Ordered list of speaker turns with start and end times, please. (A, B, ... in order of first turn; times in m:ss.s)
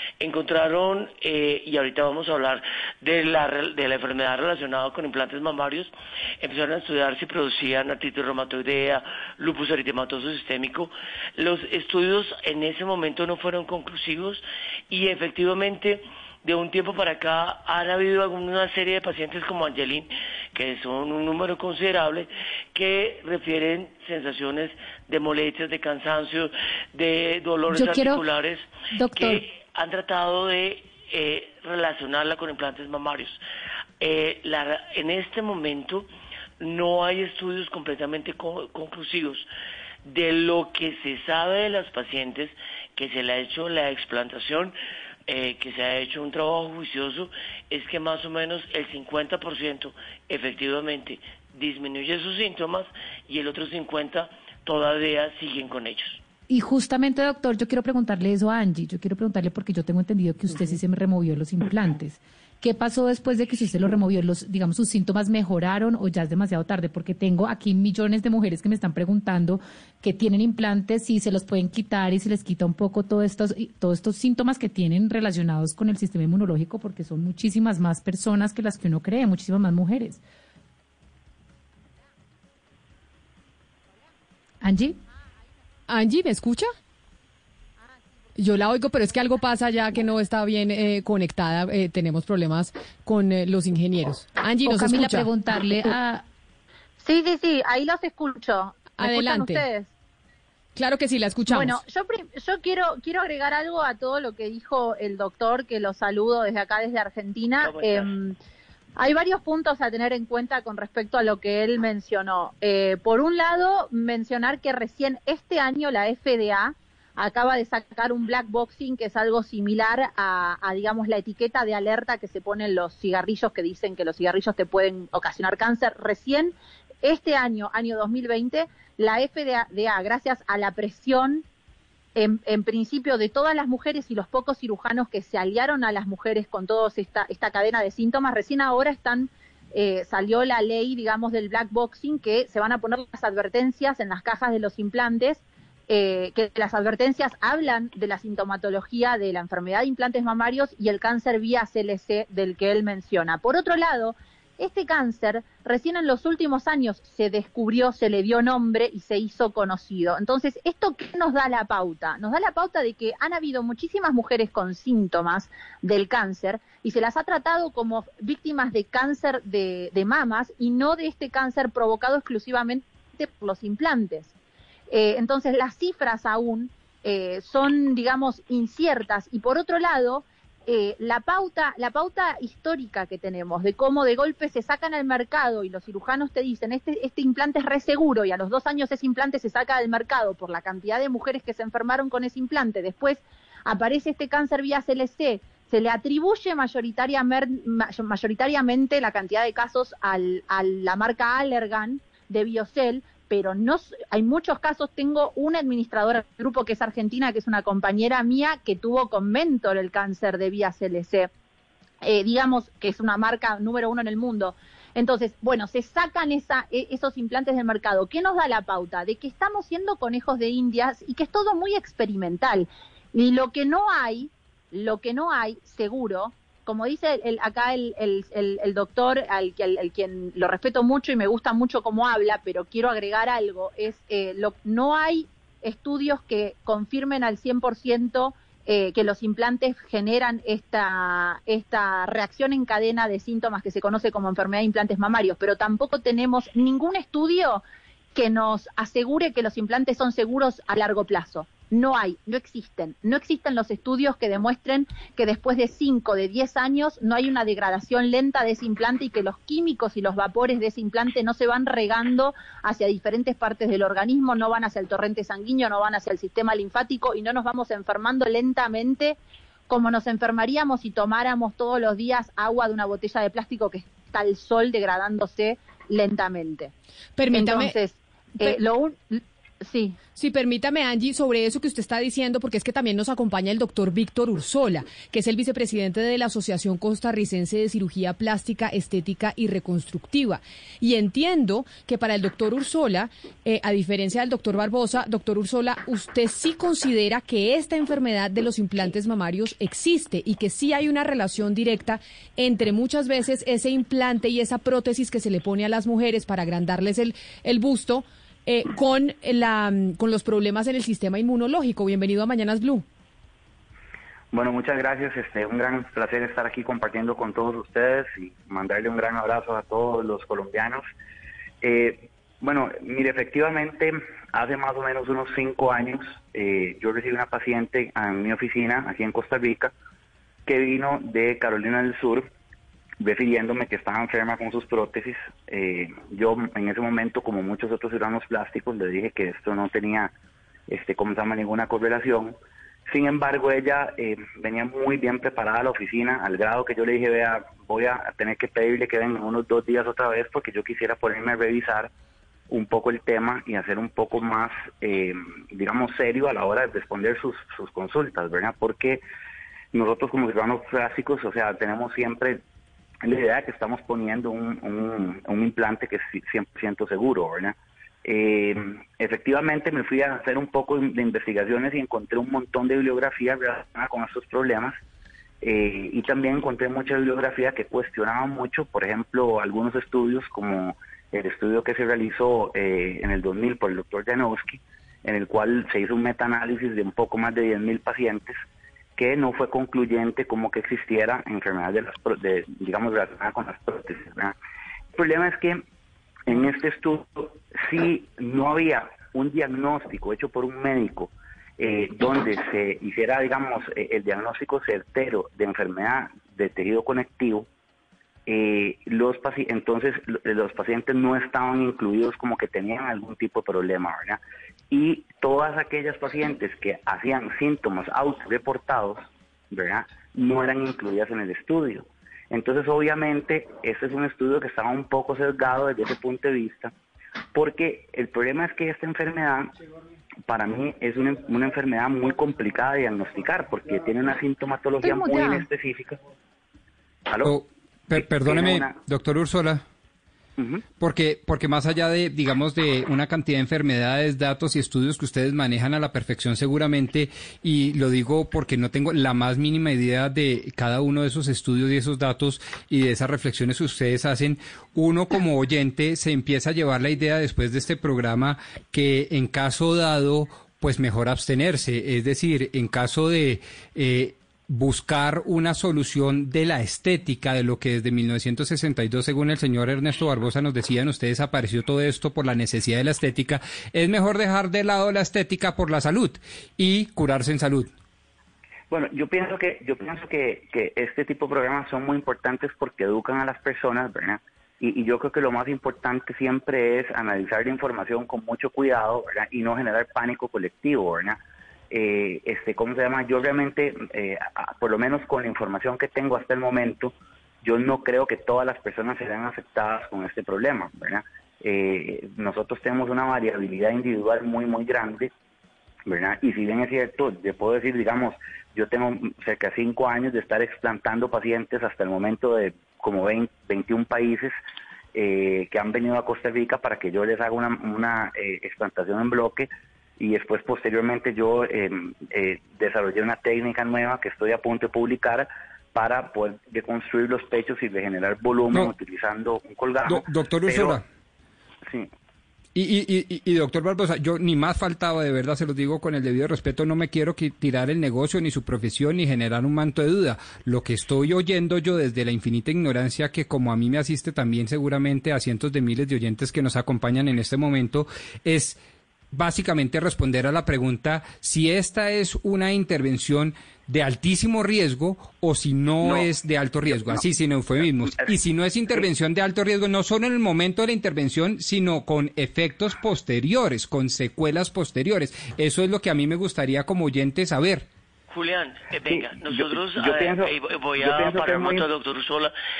0:00.2-0:33.4 A
0:27.7-0:28.2 B
0:28.9-0:29.4 B
0:34.0-0:36.0 A
0:36.6-0:39.5 A
0:40.0-0:44.7 A
0:45.3-0:56.2 A
0:56.5-1:20.2 B
1:24.6-1:25.0 B
1:25.9-1:26.7 C
1:28.3-1:35.3 C
1:34.6-1:36.2 B
1:37.0-1:39.9 D
1:39.0-1:39.6 C
1:40.8-1:41.8 C
1:41.5-1:48.4 D
1:47.6-1:48.1 A
1:49.0-2:11.4 D
2:12.2-2:54.3 D
2:54.9-3:31.3 D
3:32.0-4:29.2 D
4:29.7-4:36.7 D
4:37.2-4:37.7 C
4:37.3-4:40.0 D
4:40.2-5:12.8 C
5:14.3-5:20.8 E
5:21.6-5:29.7 E
5:30.4-5:32.3 E
5:33.0-5:40.1 E
5:40.7-5:51.9 E
5:52.5-5:59.0 E
5:59.7-6:02.4 E
6:03.0-6:14.8 E
6:15.4-6:28.4 E
6:29.0-6:34.4 E
6:34.9-6:35.6 E
6:36.3-6:47.5 E
6:48.3-7:06.7 E
7:07.3-7:09.5 E
7:10.3-7:16.0 E
7:14.8-7:15.4 D
7:17.1-7:17.4 E
7:17.2-7:19.6 F
7:17.9-7:18.8 E
7:20.4-7:20.6 E
7:20.8-7:57.7 F
7:58.7-8:11.2 E
8:11.7-8:25.1 E
8:25.9-8:34.4 E
8:34.9-8:50.8 E
8:49.8-8:50.8 F
8:52.5-9:08.6 F
9:09.1-9:27.7 F
9:15.8-9:16.1 E
9:16.7-9:17.0 E
9:17.9-9:18.1 E
9:28.1-9:32.3 A
9:28.9-9:31.7 E